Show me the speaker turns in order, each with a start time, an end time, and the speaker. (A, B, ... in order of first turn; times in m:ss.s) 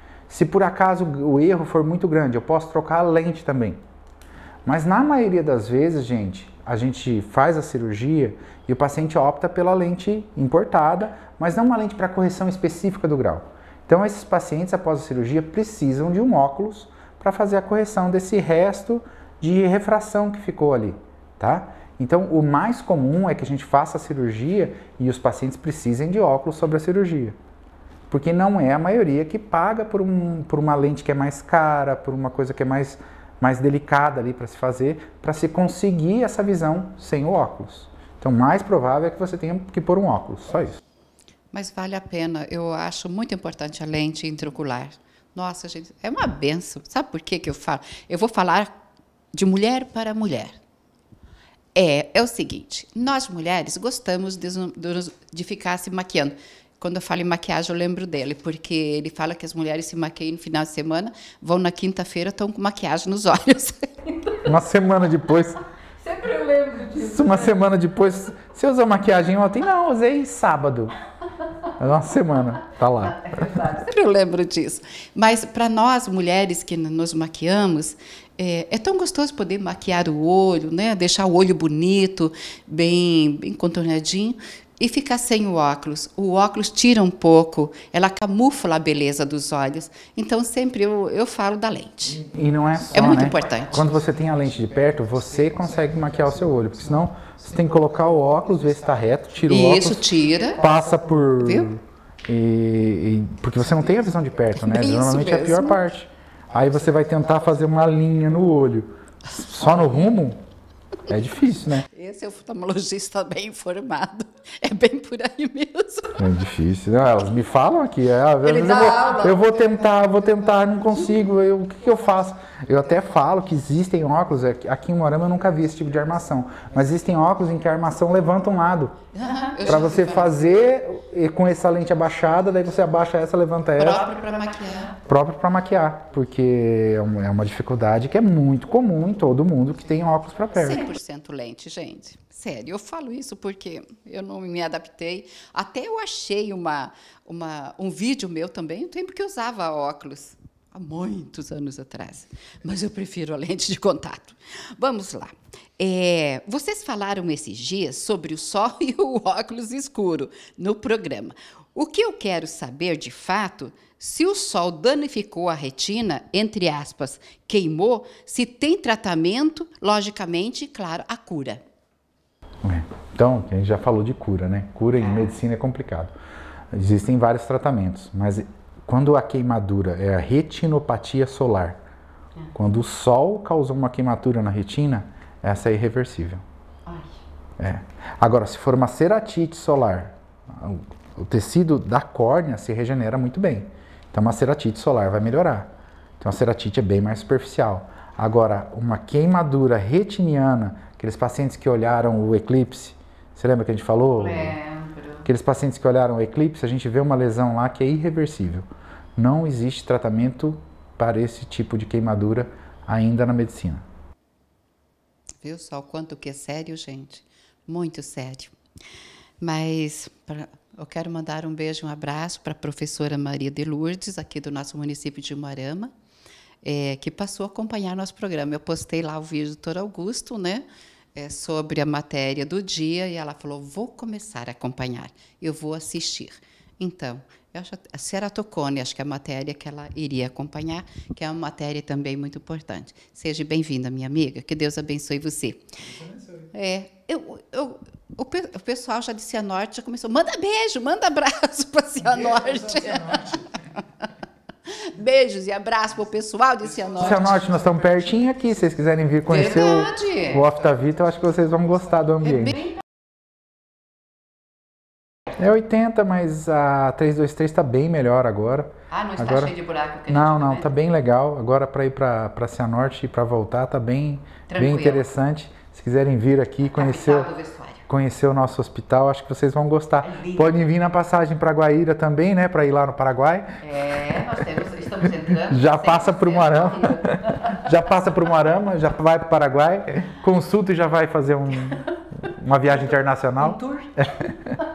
0:00.3-0:03.8 A
0:04.6-0:27.4 A
0:28.1-0:40.8 A
0:41.5-0:48.7 B
0:49.3-0:50.6 B
0:51.7-1:04.3 B
1:04.4-1:05.6 A
1:06.0-1:07.5 B
1:06.9-1:10.9 A
1:11.8-1:13.2 A
1:13.0-1:32.2 B
1:32.2-1:50.4 A
1:32.9-1:33.8 B
1:39.5-1:40.6 B
1:41.4-1:41.7 B
1:44.6-1:45.8 B
1:51.1-1:51.9 A
1:51.9-1:56.2 B
1:56.2-2:09.0 A
1:58.4-1:59.9 B
2:09.1-2:10.4 B
2:09.6-2:14.1 A
2:13.8-2:15.0 B
2:15.0-2:20.9 A
2:20.5-2:51.6 B
2:52.6-2:56.1 A
2:54.9-2:55.3 B
2:56.7-3:01.8 A
3:02.5-3:06.4 A
3:06.9-3:07.1 B
3:07.6-3:24.6 A
3:24.2-3:25.2 B
3:25.2-3:33.8 A
3:35.4-3:38.5 B
3:39.4-3:45.9 B
3:46.6-4:05.6 B
4:06.5-4:13.8 B
4:14.7-4:17.5 B
4:17.0-4:22.7 A
4:19.3-4:20.4 B
4:25.4-4:29.5 A
4:28.9-4:30.7 B
4:30.1-4:37.3 A
4:34.5-4:35.0 B
4:36.8-4:37.8 B
4:37.9-4:43.6 A
4:40.0-4:40.6 B
4:43.6-4:47.5 B
4:45.4-4:54.5 A
4:53.4-4:53.9 B